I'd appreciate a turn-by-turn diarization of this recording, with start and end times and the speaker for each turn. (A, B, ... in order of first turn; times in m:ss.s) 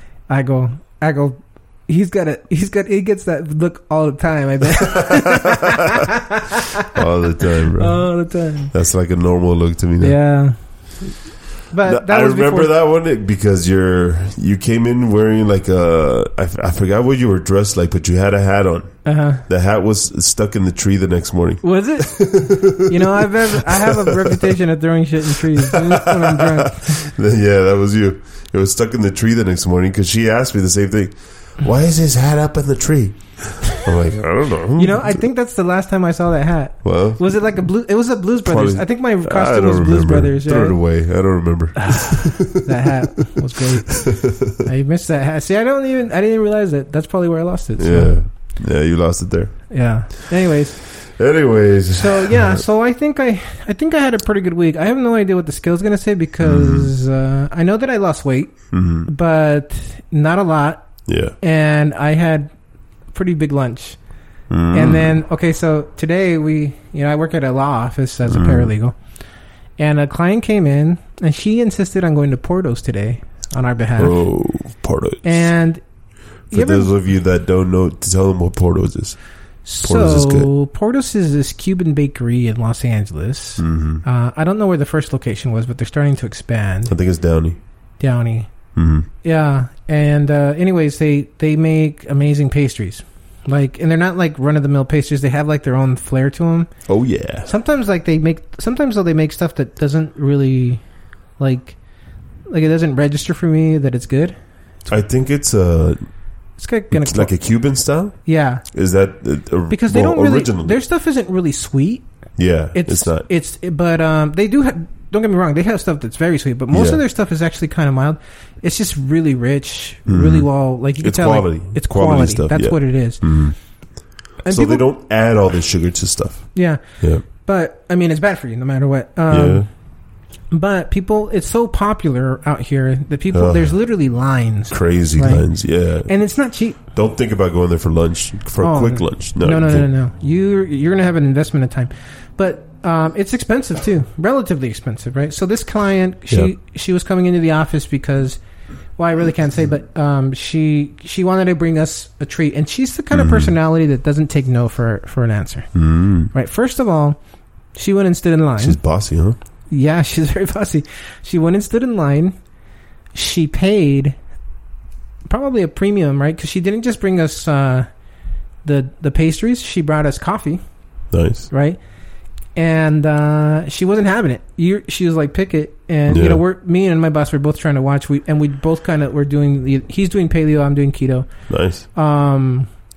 0:00.3-0:06.9 A
0:04.9-0:05.7 B
0:06.9-0:08.1 B
0:07.5-0:08.7 A
0:08.7-0:10.2 B
0:10.0-0:10.6 A
0:11.7-0:12.7 A
0:11.8-0:24.6 B
0:19.0-0:19.4 A
0:21.6-0:27.1 A
0:25.4-0:35.2 B
0:34.8-0:40.8 A
0:36.8-0:37.2 B
0:38.4-0:42.9 B
0:41.8-0:48.2 A
0:43.5-0:44.6 B
0:47.8-0:49.7 B
0:49.7-0:50.9 A
0:51.0-0:52.6 B
0:51.9-1:00.9 A
0:56.4-0:56.9 B
0:58.7-0:59.1 B
1:01.1-1:01.3 B
1:01.4-1:02.5 A
1:03.1-1:04.0 A
1:04.5-1:05.2 B
1:04.7-1:08.9 A
1:08.3-1:08.7 B
1:09.8-1:14.2 A
1:14.0-1:15.5 B
1:15.2-1:15.8 A
1:16.5-1:19.2 B
1:16.5-1:16.9 A
1:19.6-1:26.9 A
1:19.8-1:20.5 B
1:23.6-1:24.0 B
1:26.9-1:27.6 B
1:28.0-1:28.5 A
1:28.7-1:29.1 B
1:29.2-1:36.7 A
1:36.9-1:37.5 B
1:37.4-1:40.8 A
1:41.4-1:41.8 A
1:42.5-1:45.0 A
1:44.9-1:46.0 B
1:46.6-1:47.3 A
1:46.9-1:50.8 B
1:48.2-1:48.6 A
1:49.7-1:52.1 A
1:52.4-1:53.3 B
1:52.7-2:03.2 A
1:56.7-1:57.0 B
2:00.1-2:00.5 B
2:01.0-2:03.6 B
2:04.4-2:04.8 A
2:04.5-2:07.2 B
2:06.5-2:09.7 A
2:09.3-2:09.7 B
2:10.5-2:15.5 A
2:13.3-2:13.8 B
2:14.7-2:16.1 B
2:16.0-2:16.8 A
2:16.8-2:19.9 B
2:18.6-2:28.4 A
2:29.0-2:35.7 A
2:33.1-2:33.5 B
2:35.7-2:36.3 B
2:36.3-2:37.2 A
2:37.7-2:38.8 A
2:38.6-2:39.4 B
2:39.7-2:42.3 A
2:43.1-2:44.2 A
2:45.3-2:47.9 A
2:48.6-2:50.6 A
2:51.1-2:51.5 B
2:51.5-2:51.8 A
2:52.6-3:01.3 A
2:56.1-2:56.4 B
3:01.5-3:01.8 B
3:01.9-3:02.7 A